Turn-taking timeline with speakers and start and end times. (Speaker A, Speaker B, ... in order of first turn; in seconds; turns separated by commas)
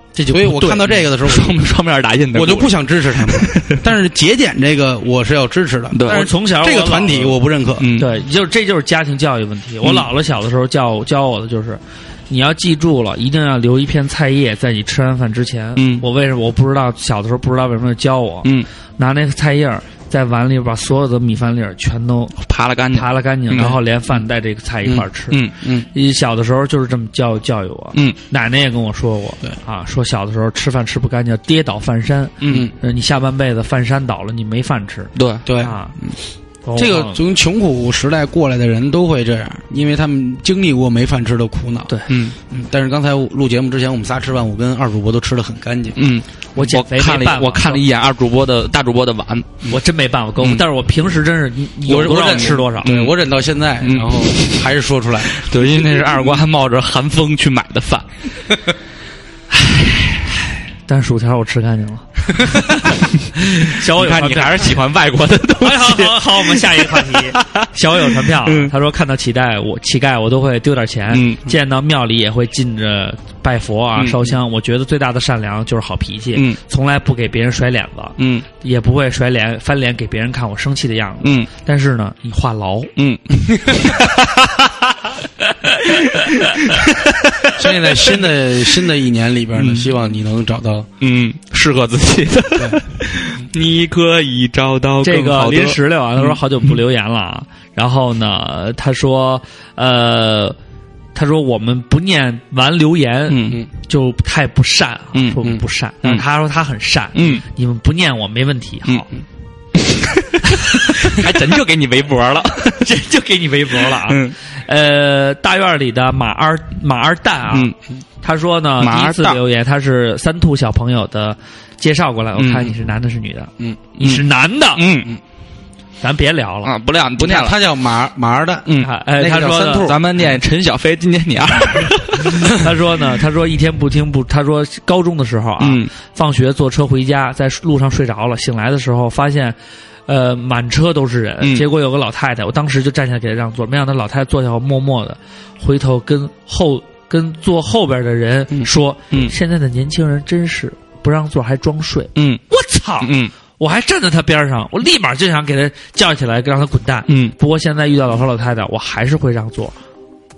Speaker A: 0.2-1.6, Speaker B: 0.3-3.8, Speaker A: 2.3-7.9, Speaker B: 5.9-6.3, Speaker C: 6.1-7.4, Speaker B: 7.8-8.2, Speaker C: 8.0-22.4, Speaker B: 15.8-16.0, Speaker B: 22.4-23.8, Speaker C: 22.9-25.4, Speaker B: 24.9-25.6, Speaker A: 25.6-25.9, Speaker C: 25.9-36.0, Speaker B: 32.4-32.7, Speaker B: 35.2-35.5, Speaker A: 35.5-36.2, Speaker C: 36.6-37.2, Speaker A: 36.8-41.9, Speaker B: 42.1-42.4, Speaker A: 42.5-46.0, Speaker B: 46.0-49.7, Speaker C: 46.6-47.8, Speaker C: 49.7-52.9, Speaker A: 51.9-55.5, Speaker B: 52.0-53.2, Speaker B: 53.8-54.5, Speaker B: 55.4-58.1, Speaker C: 60.9-64.8, Speaker B: 63.7-68.7, Speaker C: 65.6-82.9, Speaker B: 71.1-71.5, Speaker B: 74.0-74.2, Speaker B: 78.2-78.5, Speaker B: 81.2-81.5, Speaker B: 83.0-84.9, Speaker B: 85.9-88.2, Speaker A: 87.6-90.9, Speaker B: 89.6-89.9, Speaker B: 91.0-96.4, Speaker C: 95.0-100.6, Speaker C: 101.2-109.1, Speaker B: 103.3-103.6, Speaker B: 105.1-106.2, Speaker B: 107.2-107.4, Speaker B: 109.8-112.9, Speaker C: 112.8-124.8, Speaker B: 114.0-114.3, Speaker B: 117.5-117.8, Speaker B: 118.8-119.4, Speaker B: 122.4-122.7, Speaker B: 124.0-125.1, Speaker C: 126.0-126.7, Speaker B: 126.6-127.6, Speaker A: 127.2-130.1, Speaker B: 128.7-128.9, Speaker C: 128.8-129.9, Speaker B: 129.8-132.6, Speaker C: 132.2-139.6, Speaker B: 135.6-135.9, Speaker C: 140.1-159.8, Speaker B: 141.4-141.7, Speaker B: 148.5-149.3, Speaker B: 152.2-152.4, Speaker B: 153.0-153.3, Speaker B: 157.1-157.3